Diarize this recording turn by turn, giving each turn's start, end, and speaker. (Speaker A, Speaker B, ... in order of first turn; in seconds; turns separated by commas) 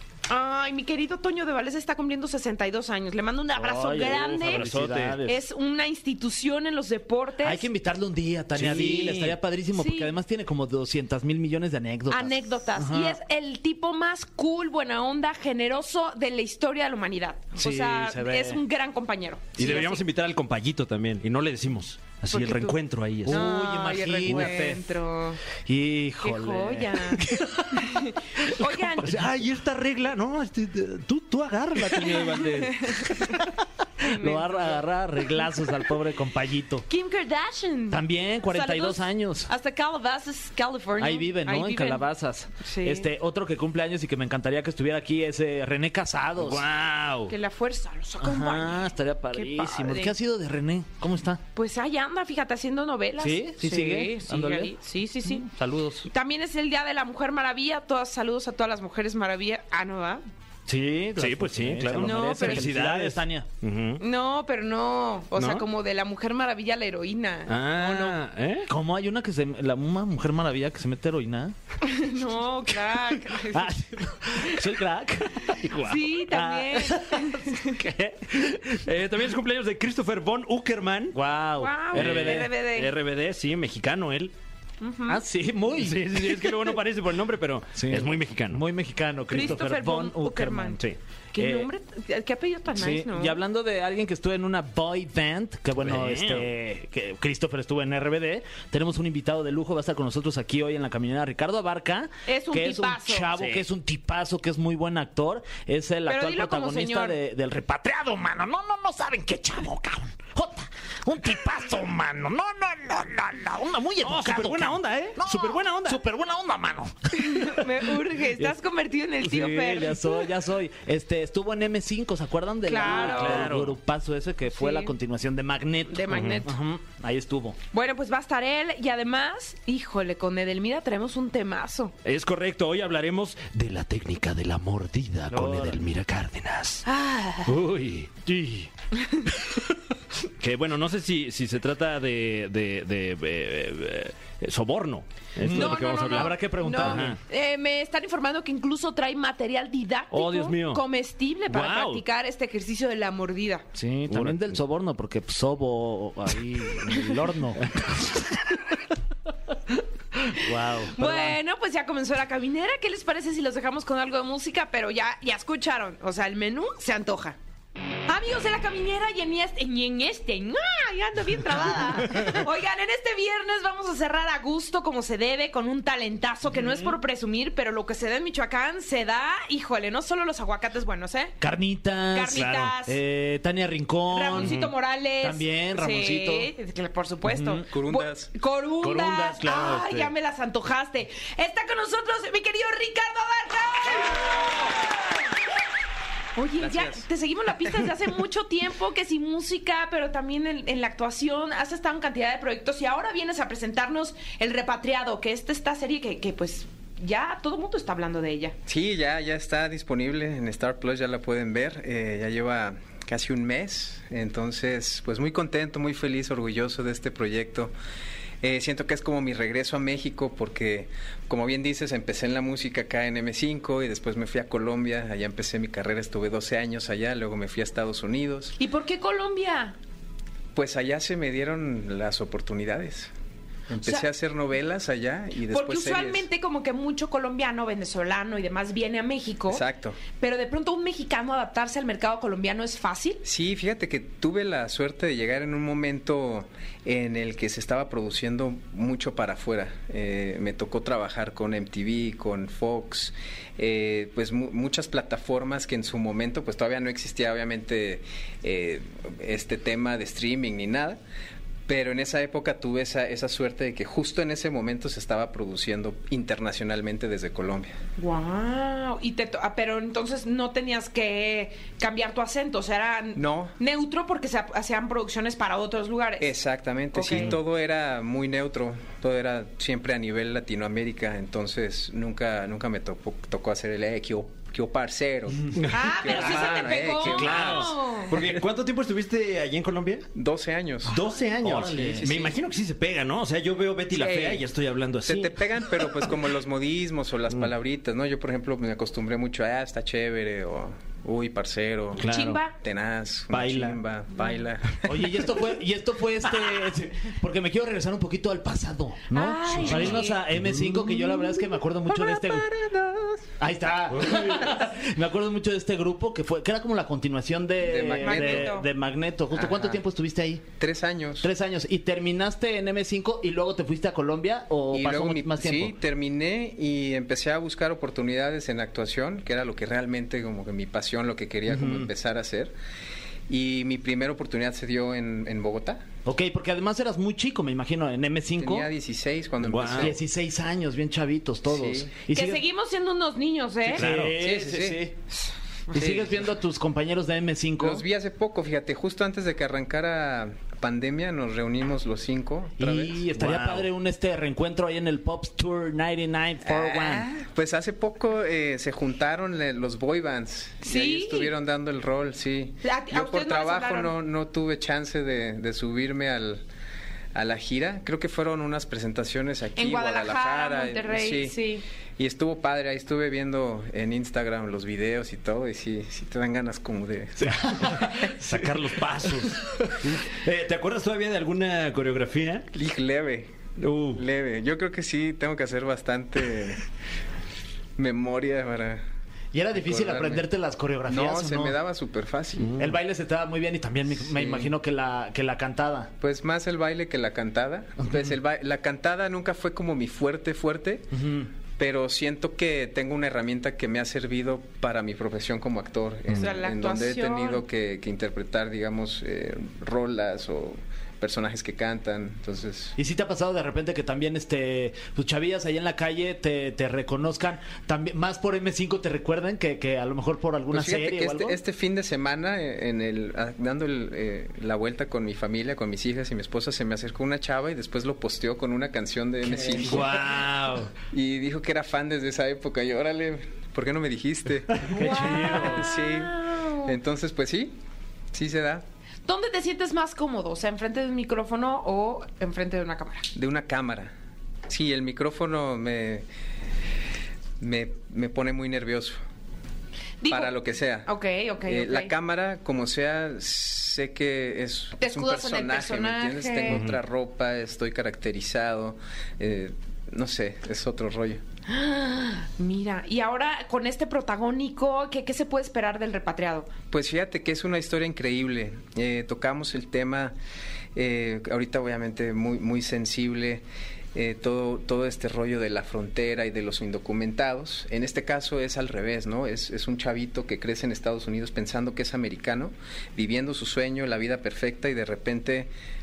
Speaker A: 0.3-4.7, Speaker B: 3.5-5.3, Speaker C: 4.0-5.4, Speaker A: 5.2-7.7, Speaker B: 7.4-13.2, Speaker C: 8.6-9.4, Speaker A: 9.7-10.1, Speaker A: 12.1-20.0, Speaker B: 17.6-18.6, Speaker C: 19.6-23.5, Speaker A: 22.3-22.8, Speaker B: 23.2-24.8, Speaker A: 23.3-25.4, Speaker C: 24.3-24.5, Speaker B: 25.6-27.4, Speaker A: 26.2-29.2, Speaker C: 27.2-27.7, Speaker C: 28.6-33.4, Speaker B: 31.9-32.3, Speaker A: 32.1-33.1, Speaker B: 34.0-36.9, Speaker A: 34.1-34.8, Speaker A: 36.9-42.1, Speaker B: 37.9-39.5, Speaker B: 41.0-46.6, Speaker A: 42.6-43.1, Speaker C: 46.4-47.4, Speaker A: 47.3-50.1, Speaker B: 48.2-51.4, Speaker A: 51.5-55.5, Speaker B: 53.2-54.7, Speaker B: 55.3-56.1, Speaker A: 56.1-60.2, Speaker B: 60.7-63.5, Speaker C: 61.2-64.0, Speaker A: 62.0-62.7, Speaker A: 64.0-68.2, Speaker C: 65.3-65.7, Speaker C: 67.5-68.7, Speaker B: 68.7-71.5, Speaker A: 71.8-73.7, Speaker B: 73.3-78.8, Speaker C: 75.5-76.0, Speaker A: 75.8-77.7, Speaker C: 78.7-81.2, Speaker B: 81.1-82.5, Speaker A: 81.6-82.9, Speaker C: 81.9-84.3, Speaker A: 84.8-85.2, Speaker B: 85.1-86.6, Speaker C: 85.8-88.6, Speaker B: 87.8-90.8, Speaker A: 89.3-90.8, Speaker A: 91.3-93.4, Speaker B: 91.4-91.7, Speaker B: 92.7-117.6, Speaker C: 95.8-96.5, Speaker A: 102.3-103.3, Speaker C: 103.3-103.7, Speaker A: 106.1-107.2, Speaker C: 114.0-116.0, Speaker A: 117.2-120.3, Speaker B: 119.2-127.6, Speaker A: 122.7-123.5, Speaker C: 122.8-123.8, Speaker A: 124.5-124.9, Speaker A: 125.9-126.6, Speaker C: 126.1-126.4, Speaker A: 127.7-131.9, Speaker C: 132.0-136.8, Speaker B: 135.3-135.8, Speaker A: 136.8-137.6, Speaker C: 137.4-138.2, Speaker B: 138.3-138.7, Speaker C: 140.4-147.2, Speaker B: 145.4-147.2, Speaker A: 145.5-153.7, Speaker C: 150.1-150.8, Speaker C: 151.5-152.0, Speaker B: 153.8-157.7, Speaker C: 154.1-154.6, Speaker C: 157.8-158.2, Speaker A: 160.2-167.4, Speaker B: 160.4-161.4, Speaker A: 168.1-181.4, Speaker B: 176.6-176.9, Speaker B: 181.4-184.6, Speaker A: 182.1-183.0, Speaker A: 184.1-195.0, Speaker C: 184.3-184.7, Speaker B: 185.2-186.5, Speaker B: 187.2-187.6, Speaker D: 187.7-188.3, Speaker B: 188.8-190.1, Speaker C: 189.1-190.0, Speaker A: 196.4-208.6, Speaker D: 196.6-197.1, Speaker D: 208.7-217.7, Speaker D: 218.4-228.6, Speaker A: 228.6-229.8, Speaker D: 230.6-233.1, Speaker D: 233.7-236.3, Speaker A: 235.5-243.2, Speaker D: 239.5-240.0, Speaker D: 243.2-261.0, Speaker D: 261.7-267.8, Speaker A: 268.0-276.3, Speaker D: 273.1-273.6, Speaker D: 276.2-288.4, Speaker A: 276.9-277.4, Speaker C: 285.6-290.1, Speaker A: 285.7-288.1, Speaker D: 290.1-291.0, Speaker C: 290.9-295.5, Speaker B: 291.4-292.3, Speaker A: 294.0-294.4, Speaker D: 295.0-302.1, Speaker C: 301.9-302.4, Speaker A: 302.1-302.6, Speaker D: 302.6-304.8, Speaker C: 303.3-303.8, Speaker B: 304.8-312.5, Speaker A: 309.1-310.2, Speaker C: 309.5-310.0, Speaker B: 313.4-320.4, Speaker C: 314.0-314.4, Speaker D: 317.6-318.6, Speaker A: 318.0-318.7, Speaker D: 319.3-319.8, Speaker D: 320.6-321.3, Speaker B: 321.2-325.8, Speaker D: 324.7-332.5, Speaker B: 331.5-331.9, Speaker D: 333.3-335.8, Speaker B: 336.1-338.7, Speaker D: 338.4-340.0, Speaker C: 339.4-340.0, Speaker B: 339.8-342.4, Speaker D: 341.5-341.9, Speaker A: 342.1-343.9, Speaker C: 343.7-344.2, Speaker B: 343.7-344.9, Speaker D: 344.2-345.0, Speaker D: 345.7-346.2, Speaker B: 345.7-347.8, Speaker D: 347.6-353.2, Speaker B: 352.6-357.1, Speaker C: 353.2-353.6, Speaker D: 356.4-366.4, Speaker A: 360.6-361.3, Speaker A: 362.6-363.9, Speaker D: 367.1-371.4, Speaker A: 369.6-371.6, Speaker D: 372.0-377.8, Speaker B: 377.2-378.2, Speaker C: 377.7-382.5, Speaker D: 382.5-383.3, Speaker C: 383.6-384.0, Speaker D: 383.9-386.6, Speaker D: 387.8-388.8, Speaker B: 389.3-391.6, Speaker D: 389.6-390.3, Speaker D: 390.9-392.6, Speaker C: 392.4-392.7, Speaker B: 392.6-395.9, Speaker D: 394.1-394.5, Speaker D: 396.0-401.0, Speaker B: 400.9-401.3, Speaker D: 401.6-412.8, Speaker A: 406.2-407.4, Speaker B: 412.8-421.4, Speaker D: 420.5-430.0, Speaker C: 429.6-430.7, Speaker B: 429.6-430.6, Speaker D: 430.9-437.6, Speaker A: 434.7-436.7, Speaker B: 434.8-435.6, Speaker C: 434.8-435.6, Speaker D: 438.1-438.6, Speaker A: 439.1-443.1, Speaker D: 443.1-443.9, Speaker D: 444.5-446.1, Speaker D: 447.4-449.0, Speaker A: 450.0-450.3, Speaker D: 450.1-450.9, Speaker A: 450.9-451.9, Speaker D: 451.4-461.2, Speaker A: 454.8-456.6, Speaker C: 456.5-456.8, Speaker A: 461.5-466.5, Speaker D: 466.7-470.1, Speaker D: 470.8-473.4, Speaker D: 473.9-485.5